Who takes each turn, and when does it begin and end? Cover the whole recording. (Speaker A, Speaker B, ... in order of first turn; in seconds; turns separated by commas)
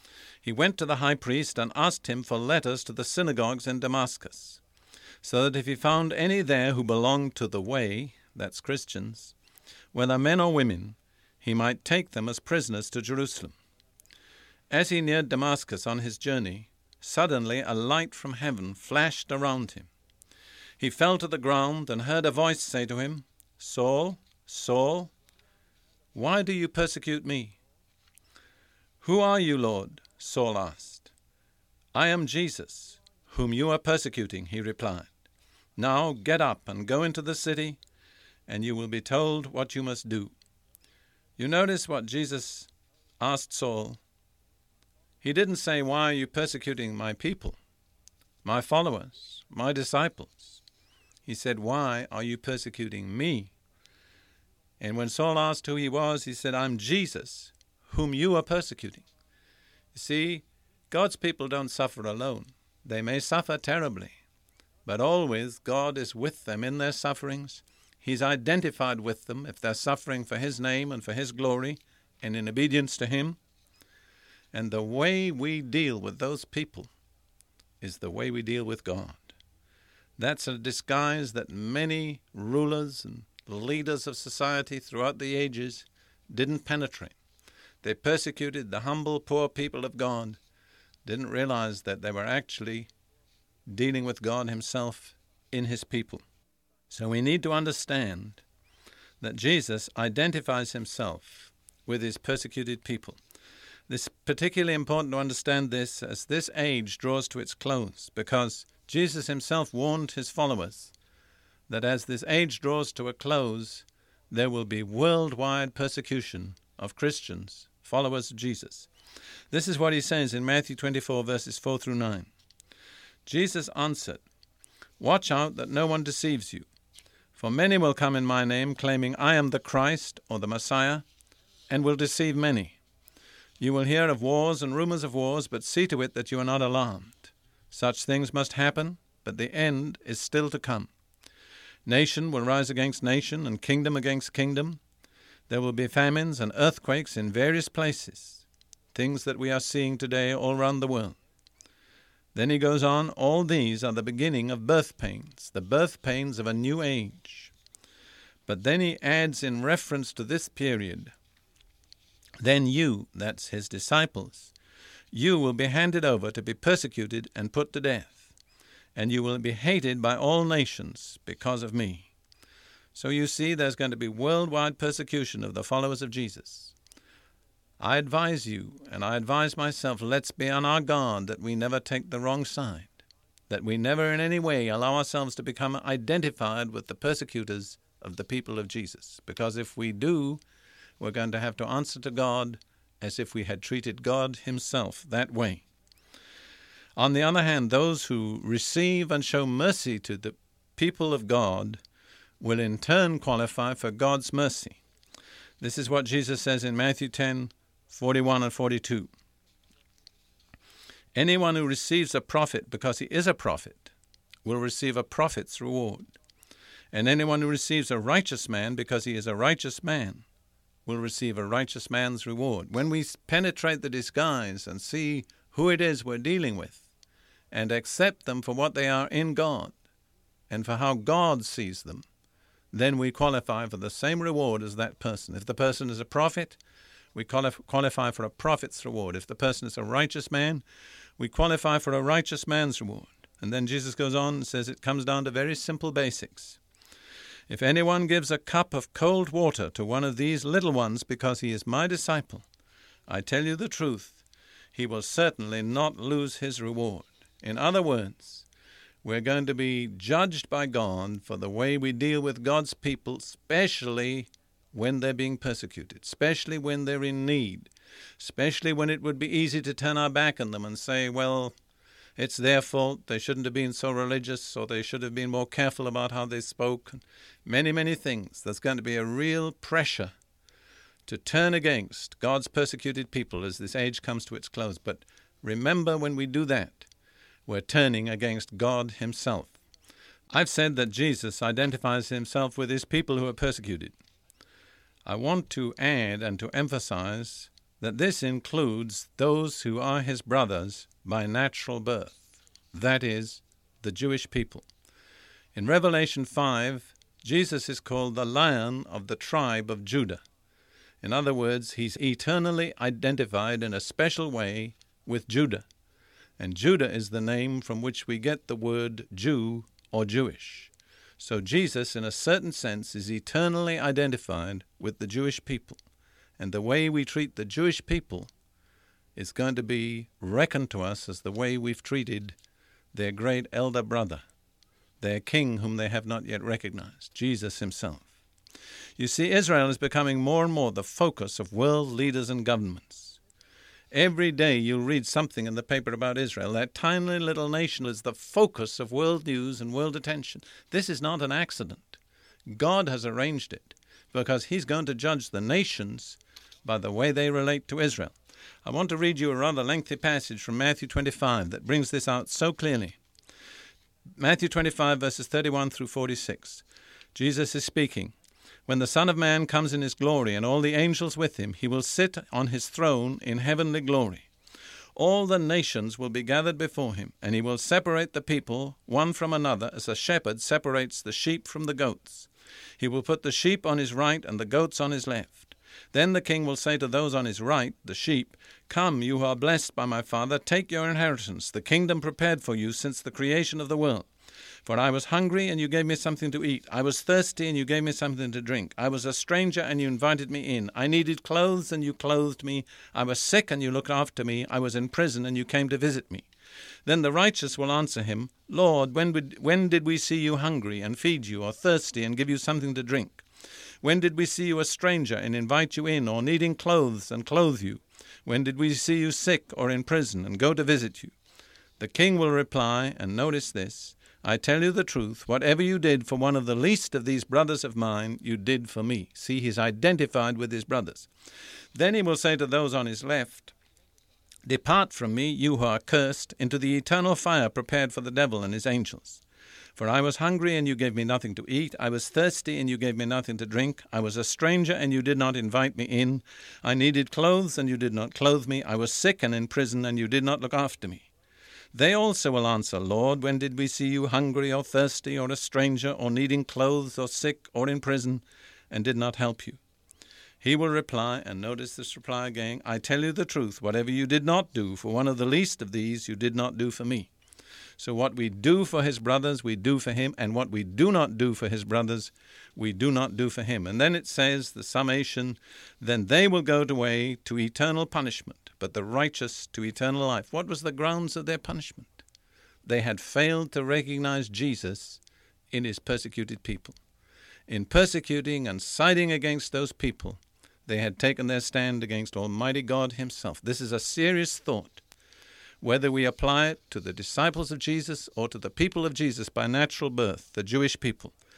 Speaker A: 0.4-4.6, Speaker A: 5.2-9.3, Speaker A: 9.9-13.5, Speaker A: 14.7-19.9, Speaker A: 20.8-25.1, Speaker A: 26.1-27.6, Speaker A: 29.0-31.1, Speaker A: 31.9-35.1, Speaker A: 35.8-37.8, Speaker A: 38.5-40.3, Speaker A: 41.4-42.7, Speaker A: 43.2-44.0, Speaker A: 45.2-47.6, Speaker A: 48.4-50.6, Speaker A: 51.2-53.5, Speaker A: 54.8-59.0, Speaker A: 59.9-64.2, Speaker A: 64.8-73.4, Speaker A: 74.5-76.9, Speaker A: 77.8-79.3, Speaker A: 80.2-87.2, Speaker A: 87.8-90.4, Speaker A: 91.0-92.9, Speaker A: 93.7-96.2, Speaker A: 96.9-98.4, Speaker A: 99.2-103.2, Speaker A: 103.9-110.9, Speaker A: 111.7-118.9, Speaker A: 119.5-122.3, Speaker A: 123.2-124.2, Speaker A: 125.0-126.7, Speaker A: 127.3-131.1, Speaker A: 131.7-132.8, Speaker A: 133.6-140.9, Speaker A: 141.8-144.8, Speaker A: 145.5-151.2, Speaker A: 152.3-157.5, Speaker A: 158.4-161.1, Speaker A: 162.4-164.5, Speaker A: 165.1-168.3, Speaker A: 168.9-172.1, Speaker A: 172.9-176.7, Speaker A: 177.8-190.4, Speaker A: 191.0-195.7, Speaker A: 196.9-201.8, Speaker A: 202.4-204.8, Speaker A: 205.6-209.1, Speaker A: 211.1-213.9, Speaker A: 214.4-216.1, Speaker A: 216.9-220.2, Speaker A: 220.8-226.9, Speaker A: 227.5-229.8, Speaker A: 230.5-232.0, Speaker A: 232.7-236.6, Speaker A: 237.1-240.6, Speaker A: 241.2-246.6, Speaker A: 247.5-252.4, Speaker A: 253.1-258.5, Speaker A: 259.0-271.5, Speaker A: 272.2-280.1, Speaker A: 281.1-286.9, Speaker A: 287.4-289.6, Speaker A: 290.3-293.9, Speaker A: 295.1-304.7, Speaker A: 305.5-310.2, Speaker A: 311.0-315.6, Speaker A: 316.4-325.8, Speaker A: 326.4-328.3, Speaker A: 329.1-332.4, Speaker A: 332.9-334.2, Speaker A: 335.0-338.1, Speaker A: 339.0-343.2, Speaker A: 343.9-363.0, Speaker A: 364.2-368.1, Speaker A: 368.6-374.3, Speaker A: 374.9-394.1, Speaker A: 394.6-406.3, Speaker A: 406.8-413.2, Speaker A: 413.8-421.1, Speaker A: 421.8-431.1, Speaker A: 431.7-433.5, Speaker A: 434.4-439.2, Speaker A: 439.8-451.1, Speaker A: 451.7-459.6, Speaker A: 460.4-467.1, Speaker A: 467.8-482.0, Speaker A: 482.6-485.0, Speaker A: 485.5-486.8, Speaker A: 487.5-494.8, Speaker A: 495.6-501.1